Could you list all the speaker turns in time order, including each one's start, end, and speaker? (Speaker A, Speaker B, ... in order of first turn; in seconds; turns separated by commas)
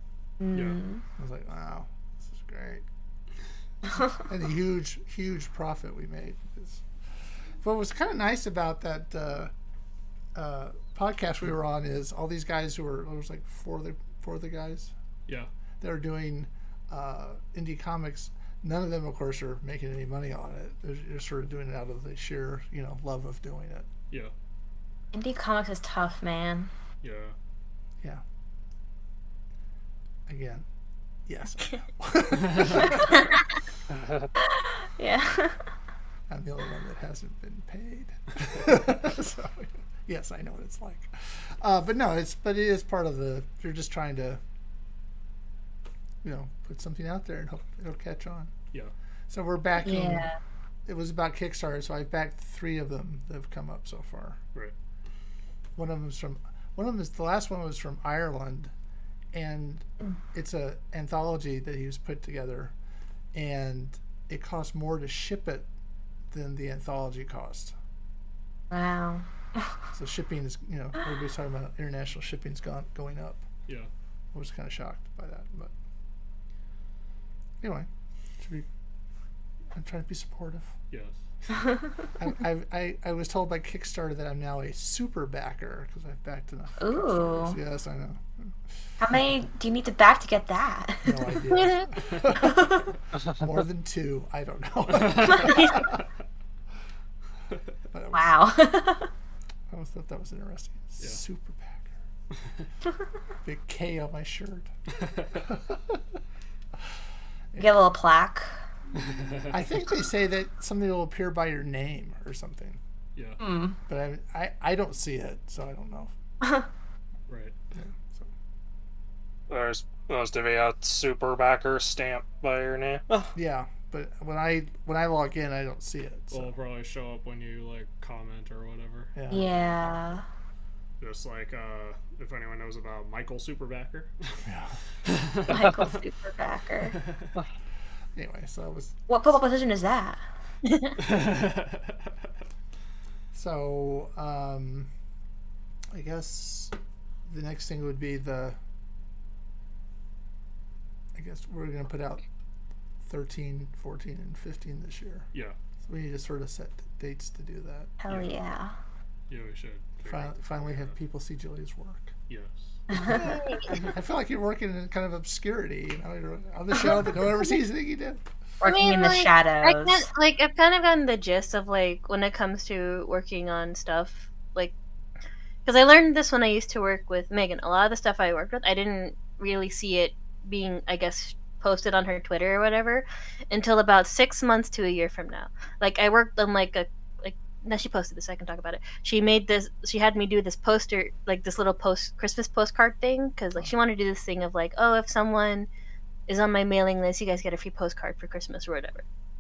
Speaker A: 0.4-1.0, Speaker B: 0.5-0.8, Speaker C: 1.2-2.9, Speaker C: 4.1-6.8, Speaker C: 7.6-9.5, Speaker C: 10.3-14.9, Speaker C: 15.8-23.9, Speaker A: 25.1-26.7, Speaker B: 27.0-27.4, Speaker C: 30.3-30.6, Speaker C: 31.3-33.3, Speaker A: 34.6-35.6, Speaker C: 36.3-44.4, Speaker C: 46.2-48.5, Speaker C: 49.3-50.3, Speaker A: 49.8-50.4, Speaker C: 50.9-54.4, Speaker C: 55.8-58.7, Speaker C: 59.3-62.7, Speaker C: 63.3-65.7, Speaker C: 66.3-67.7, Speaker A: 68.7-69.7, Speaker C: 69.9-73.5, Speaker C: 74.3-75.7, Speaker C: 77.6-77.9, Speaker C: 78.4-78.7, Speaker C: 79.7-80.7, Speaker C: 82.2-88.5, Speaker A: 86.8-87.6, Speaker A: 89.0-91.4, Speaker C: 91.0-95.8, Speaker D: 91.5-91.9, Speaker B: 94.9-95.6, Speaker C: 97.9-98.4, Speaker A: 98.1-99.1, Speaker C: 99.7-102.0, Speaker C: 103.4-104.7, Speaker C: 105.5-106.0, Speaker A: 107.6-108.5, Speaker B: 109.0-109.6, Speaker C: 109.5-112.8, Speaker A: 113.4-113.8, Speaker C: 113.9-116.1, Speaker B: 117.3-117.5, Speaker C: 117.8-118.3, Speaker E: 119.5-123.3, Speaker C: 123.3-126.5, Speaker B: 126.3-129.1, Speaker C: 129.1-129.5, Speaker A: 129.3-130.2, Speaker B: 131.0-134.4, Speaker C: 134.5-134.8, Speaker A: 135.5-137.0, Speaker C: 138.2-138.9, Speaker A: 139.1-140.2, Speaker D: 140.7-141.0, Speaker B: 141.0-142.0, Speaker C: 143.3-144.9, Speaker C: 145.9-146.7, Speaker C: 147.2-148.6, Speaker C: 151.2-152.2, Speaker C: 153.0-155.3, Speaker C: 155.8-157.9, Speaker A: 158.0-158.7, Speaker B: 159.3-160.9, Speaker C: 160.1-162.1, Speaker B: 162.3-162.8, Speaker C: 163.0-168.2, Speaker D: 163.1-163.9, Speaker A: 168.6-170.1, Speaker D: 168.6-174.7, Speaker D: 175.7-195.7, Speaker D: 196.3-199.0